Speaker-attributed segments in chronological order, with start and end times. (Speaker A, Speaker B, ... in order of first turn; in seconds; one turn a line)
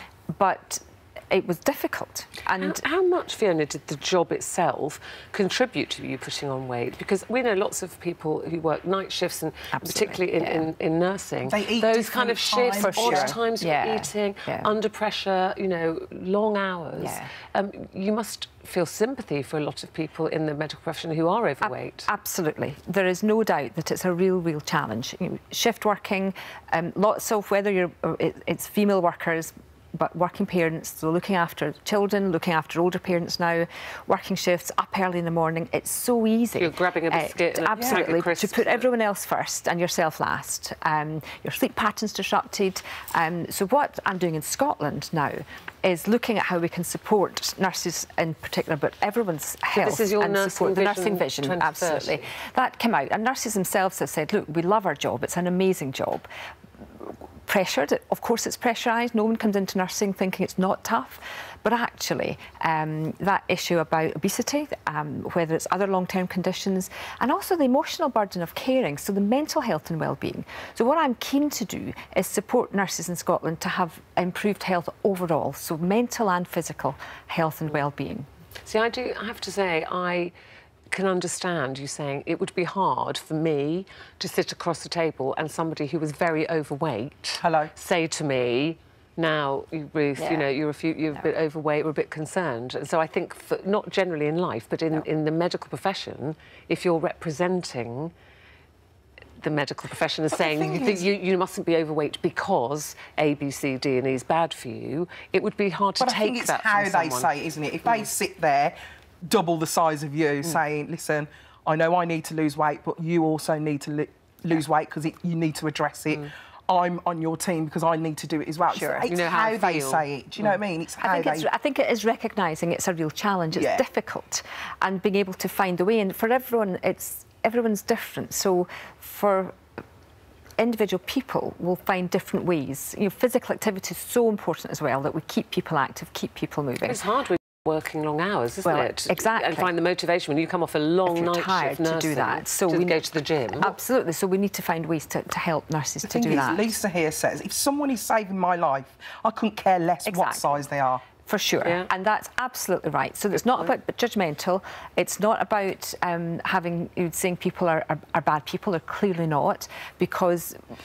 Speaker A: 0.3-2.8
Speaker B: 2.6-22.1
Speaker A: 9.8-10.7
Speaker C: 11.4-13.3
Speaker A: 12.8-14.7
Speaker A: 17.0-17.3
Speaker A: 21.6-56.3
Speaker B: 36.6-38.9
Speaker C: 37.8-38.1
Speaker B: 49.7-52.3
Speaker A: 57.0-78.3
Speaker B: 78.6-80.3
Speaker B: 80.9-98.1
Speaker C: 87.4-87.7
Speaker A: 90.2-90.5
Speaker B: 99.4-107.3
Speaker C: 100.3-101.1
Speaker C: 106.0-121.5
Speaker A: 118.7-119.1
Speaker B: 119.1-120.1
Speaker A: 121.0-129.6
Speaker C: 123.5-123.8
Speaker A: 130.6-137.0
Speaker B: 136.8-143.7
Speaker A: 138.7-139.7
Speaker A: 141.1-143.0
Speaker A: 143.6-146.7
Speaker C: 146.0-151.1
Speaker A: 150.1-150.6
Speaker A: 151.2-160.6
Speaker B: 151.6-151.9